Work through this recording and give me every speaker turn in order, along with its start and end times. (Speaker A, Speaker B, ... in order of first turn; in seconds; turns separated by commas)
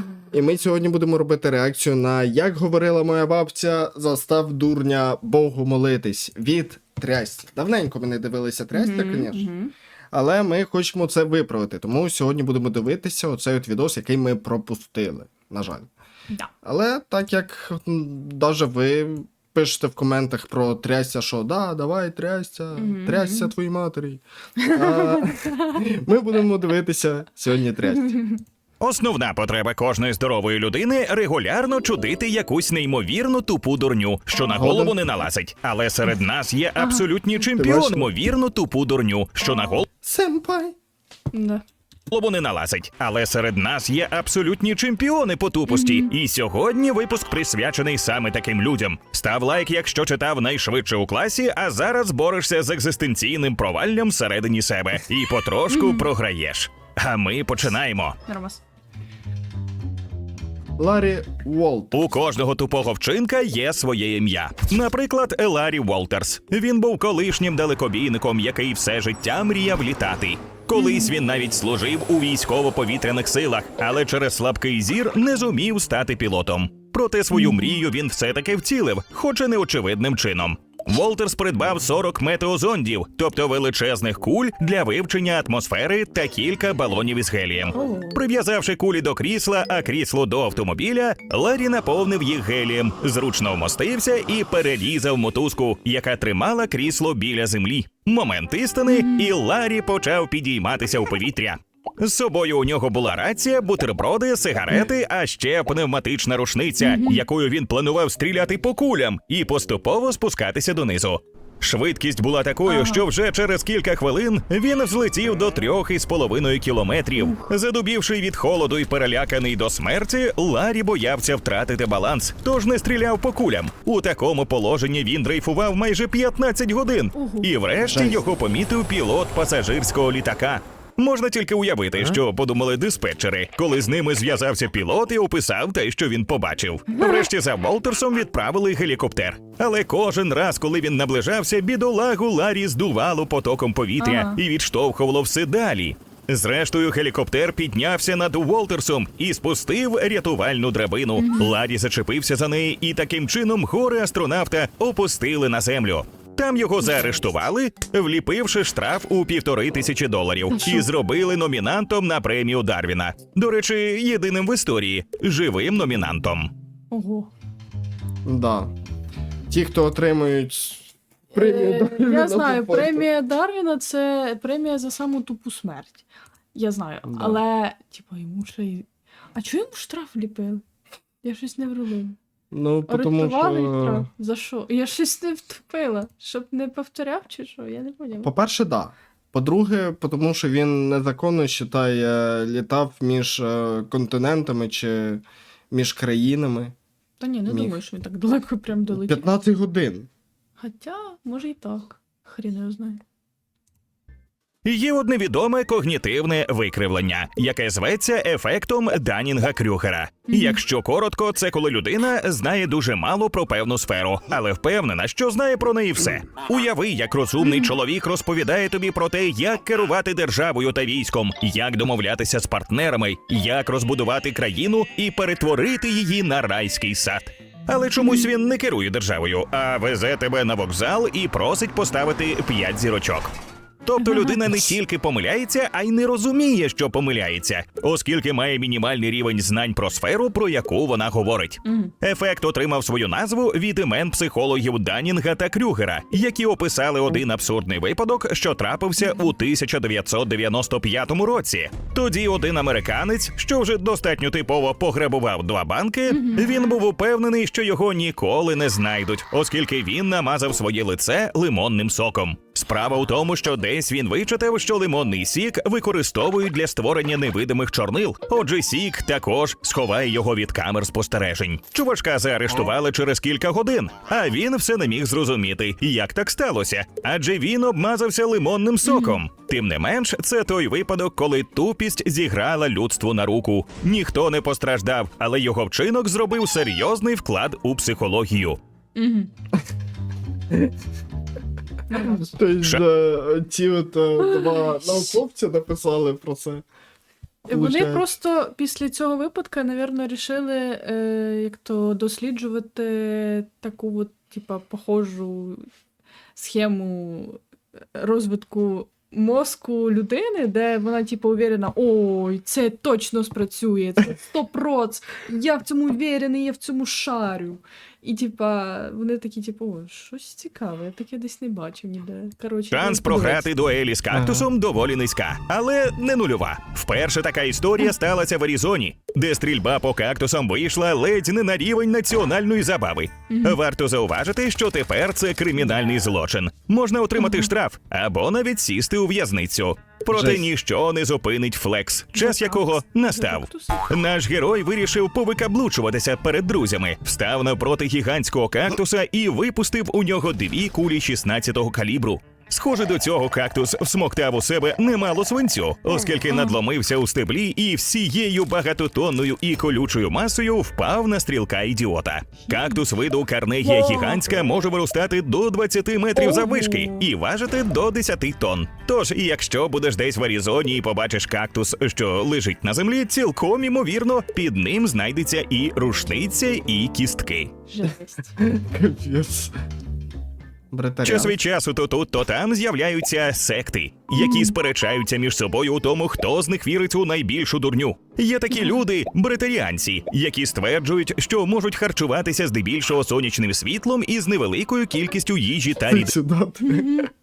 Speaker A: 0.3-9.5, Speaker B: 8.7-9.7, Speaker A: 10.1-15.9, Speaker A: 16.6-28.2, Speaker B: 22.8-23.5, Speaker B: 24.6-25.7, Speaker C: 28.8-39.9, Speaker A: 34.5-35.0, Speaker B: 36.8-37.1, Speaker A: 37.5-38.1, Speaker A: 40.0-40.8, Speaker B: 41.3-41.6, Speaker C: 42.1-58.2, Speaker B: 45.7-46.1, Speaker B: 55.7-56.1, Speaker B: 58.3-58.6, Speaker A: 60.8-62.0, Speaker C: 61.9-166.5, Speaker B: 70.7-71.1, Speaker B: 77.3-77.8, Speaker B: 87.7-88.2, Speaker B: 98.9-99.3, Speaker B: 106.8-107.2, Speaker B: 112.7-113.0, Speaker B: 127.2-127.5, Speaker B: 136.9-137.3, Speaker B: 144.0-144.4, Speaker B: 151.2-151.6, Speaker B: 160.5-160.9, Speaker B: 166.9-167.3, Speaker A: 168.3-168.7, Speaker A: 169.5-173.1, Speaker B: 171.3-180.6, Speaker A: 177.1-177.4, Speaker B: 181.2-182.2, Speaker A: 182.5-184.1, Speaker B: 182.9-188.3, Speaker A: 188.2-196.8, Speaker B: 197.2-199.2, Speaker A: 197.5-197.8, Speaker A: 198.9-200.1, Speaker B: 200.6-203.0, Speaker C: 204.7-233.3, Speaker B: 210.3-210.6, Speaker B: 217.4-217.7, Speaker B: 228.0-228.3, Speaker C: 233.8-288.6, Speaker B: 234.0-234.7, Speaker B: 241.7-241.9, Speaker B: 256.1-256.8, Speaker B: 278.8-279.2, Speaker B: 289.0-289.3, Speaker B: 291.9-292.3, Speaker A: 292.3-296.6, Speaker B: 294.2-295.2, Speaker B: 297.5-305.6, Speaker A: 297.5-298.1, Speaker B: 306.4-307.4, Speaker B: 307.9-323.5, Speaker C: 322.7-377.5, Speaker A: 324.1-324.5, Speaker B: 333.3-333.6, Speaker B: 337.2-337.5, Speaker A: 340.1-340.4, Speaker B: 342.1-344.0, Speaker B: 356.3-356.6, Speaker B: 362.5-362.8, Speaker B: 363.6-364.3, Speaker B: 366.1-367.1, Speaker B: 377.7-378.3, Speaker A: 378.4-379.5, Speaker A: 380.7-381.4, Speaker C: 381.0-396.1, Speaker B: 384.2-384.6, Speaker A: 395.9-397.1, Speaker B: 396.6-397.1